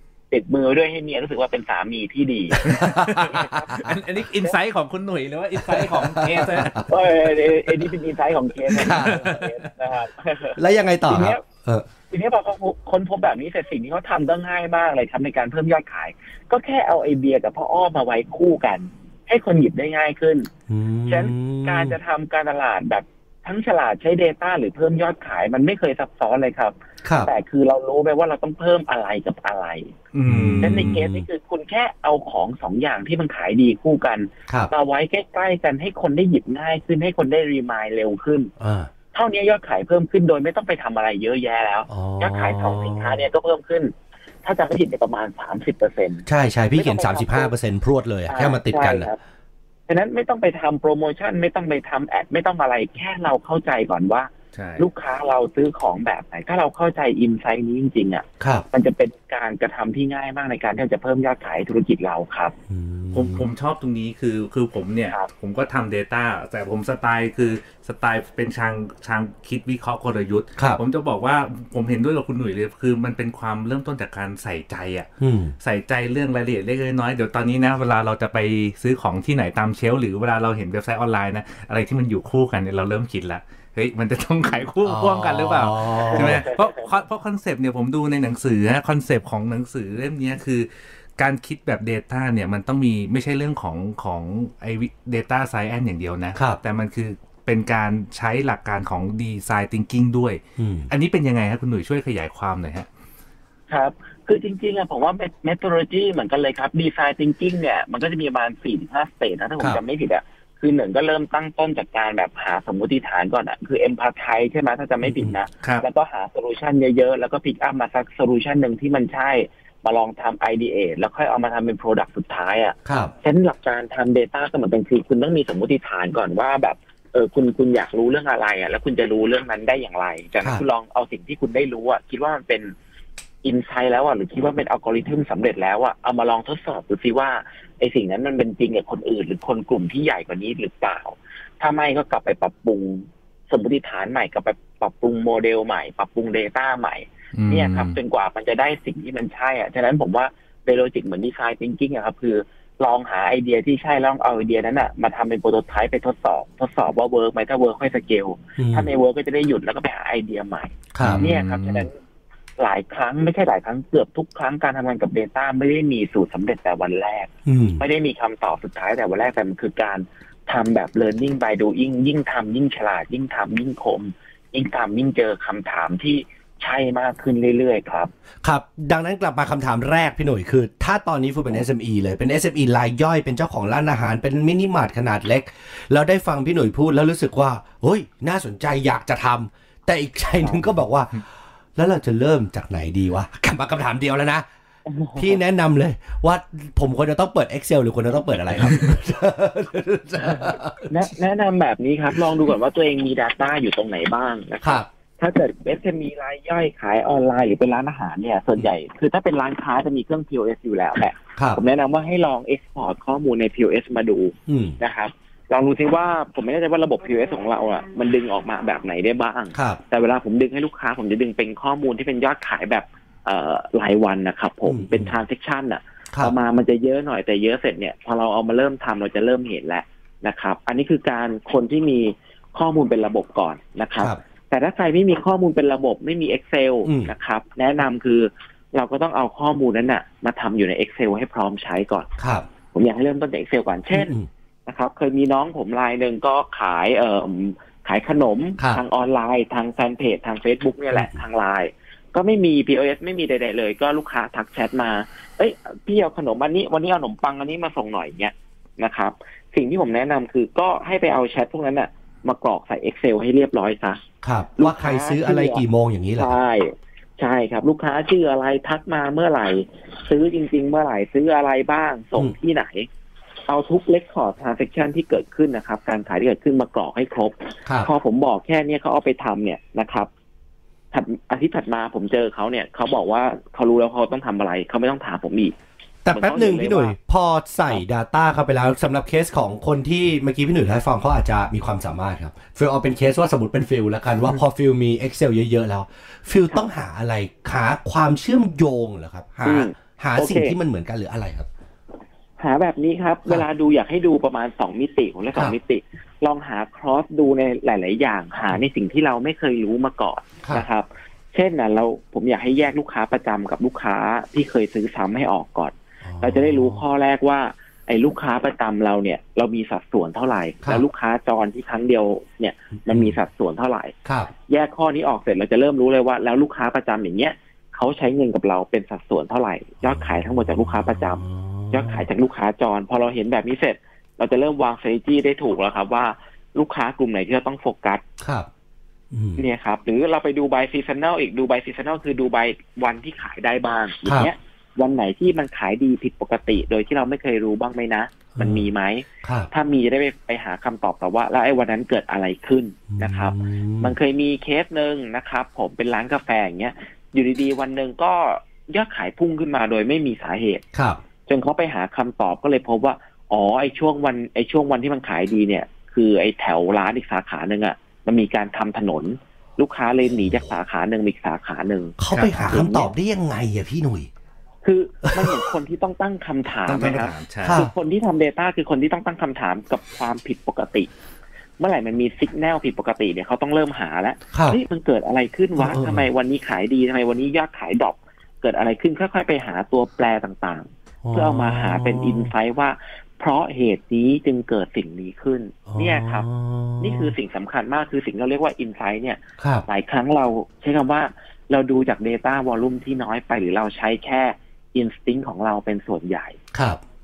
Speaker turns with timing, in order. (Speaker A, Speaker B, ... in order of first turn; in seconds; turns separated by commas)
Speaker A: 0.3-3.9, Speaker B: 2.6-3.9, Speaker C: 2.6-6.8, Speaker B: 5.6-6.9, Speaker A: 6.9-11.4, Speaker B: 8.7-9.2, Speaker C: 8.7-9.7, Speaker B: 10.6-11.9, Speaker A: 12.1-20.5, Speaker B: 20.7-22.0, Speaker A: 21.1-29.9, Speaker B: 27.0-27.3, Speaker C: 30.1-30.9, Speaker B: 30.3-31.3, Speaker A: 30.6-38.5, Speaker B: 38.6-38.9, Speaker A: 39.1-47.5, Speaker B: 41.9-43.3, Speaker B: 46.3-49.1, Speaker A: 48.3-49.2, Speaker A: 49.9-62.5, Speaker C: 54.5-54.9, Speaker B: 58.4-58.7, Speaker B: 62.7-63.5, Speaker C: 63.1-102.9, Speaker B: 75.2-75.5, Speaker B: 84.8-86.5, Speaker A: 86.0-86.9, Speaker B: 100.6-100.9, Speaker A: 103.7-132.7, Speaker B: 115.0-115.4, Speaker B: 122.9-123.1, Speaker A: 133.4-161.9, Speaker C: 147.3-148.0, Speaker B: 158.6-158.9, Speaker B: 160.9-161.2, Speaker C: 161.0-161.9, Speaker A: 162.6-178.1, Speaker B: 167.5-167.8, Speaker B: 178.4-191.2, Speaker B: 191.8-194.4, Speaker A: 194.9-195.4, Speaker B: 195.2-201.1, Speaker A: 200.9-242.1, Speaker B: 214.5-214.8, Speaker B: 219.5-219.8, Speaker B: 224.7-225.2, Speaker B: 236.8-237.1, Speaker B: 242.2-242.5, Speaker A: 242.7-244.2, Speaker B: 243.9-244.3, Speaker A: 244.7-264.0, Speaker B: 250.9-251.2, Speaker B: 264.2-266.4, Speaker A: 264.6-265.6, Speaker A: 266.2-272.9, Speaker A: 273.5-280.1, Speaker B: 277.7-277.9, Speaker A: 280.9-285.6, Speaker B: 286.1-301.5, Speaker A: 286.1-286.9, Speaker A: 299.4-300.6, Speaker A: 302.4-323.9, Speaker B: 316.0-316.8, Speaker B: 322.9-323.2, Speaker B: 324.1-324.3, Speaker A: 324.5-338.0, Speaker B: 329.8-332.1, Speaker B: 338.2-338.5, Speaker B: 339.1-339.4, Speaker A: 339.4-360.6, Speaker B: 344.1-344.3, Speaker B: 348.4-348.7, Speaker B: 349.2-349.5, Speaker B: 352.9-354.0, Speaker B: 360.7-361.0, Speaker A: 361.3-372.0, Speaker B: 372.0-374.1, Speaker C: 372.1-372.4, Speaker A: 372.5-372.9, Speaker A: 374.6-380.9, Speaker B: 375.1-375.5, Speaker C: 376.7-377.6, Speaker B: 377.4-377.7, Speaker A: 381.6-396.3, Speaker B: 384.3-384.6, Speaker B: 385.6-386.1, Speaker B: 391.0-392.3, Speaker B: 395.7-397.1, Speaker A: 396.8-406.4, Speaker B: 399.4-399.7, Speaker B: 406.5-406.8